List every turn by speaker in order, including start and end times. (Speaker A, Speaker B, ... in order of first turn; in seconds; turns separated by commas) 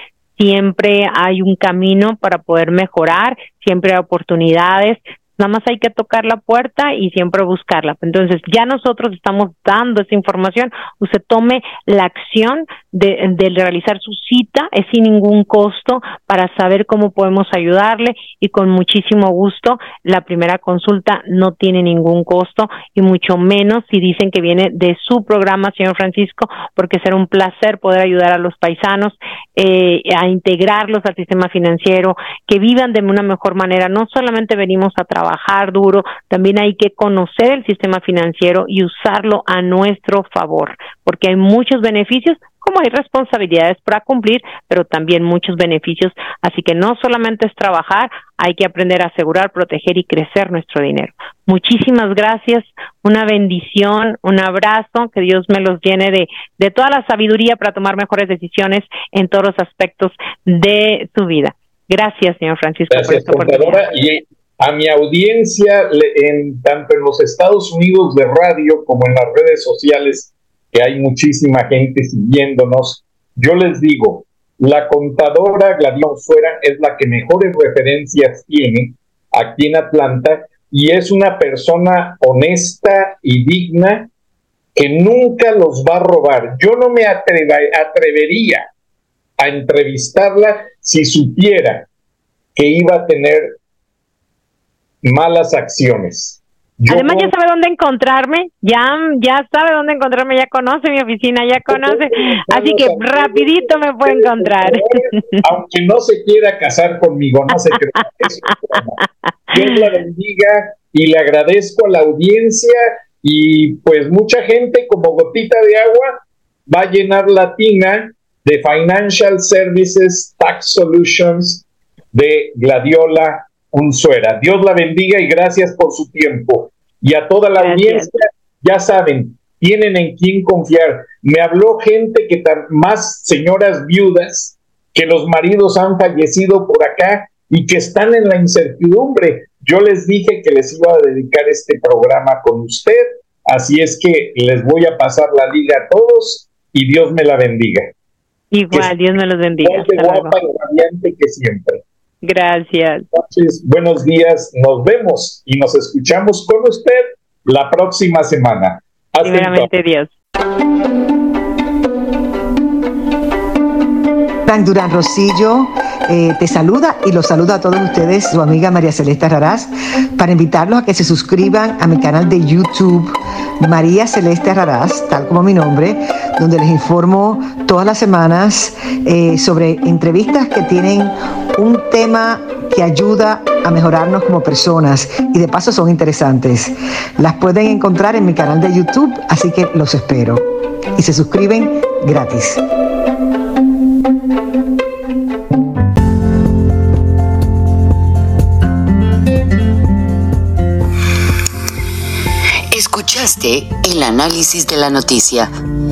Speaker A: 0.4-63.9, Speaker B: 62.9-84.1, Speaker B: 84.8-88.7, Speaker B: 89.4-91.9, Speaker B: 92.5-93.6, Speaker B: 95.0-97.3, Speaker A: 96.9-105.5, Speaker B: 101.7-109.0, Speaker B: 109.5-147.9, Speaker A: 127.6-128.1, Speaker A: 148.5-150.4, Speaker B: 149.6-151.8, Speaker A: 152.2-153.1, Speaker B: 153.1-159.7, Speaker A: 159.2-160.1, Speaker C: 164.5-190.4, Speaker C: 191.0-192.6, Speaker D: 202.7-205.5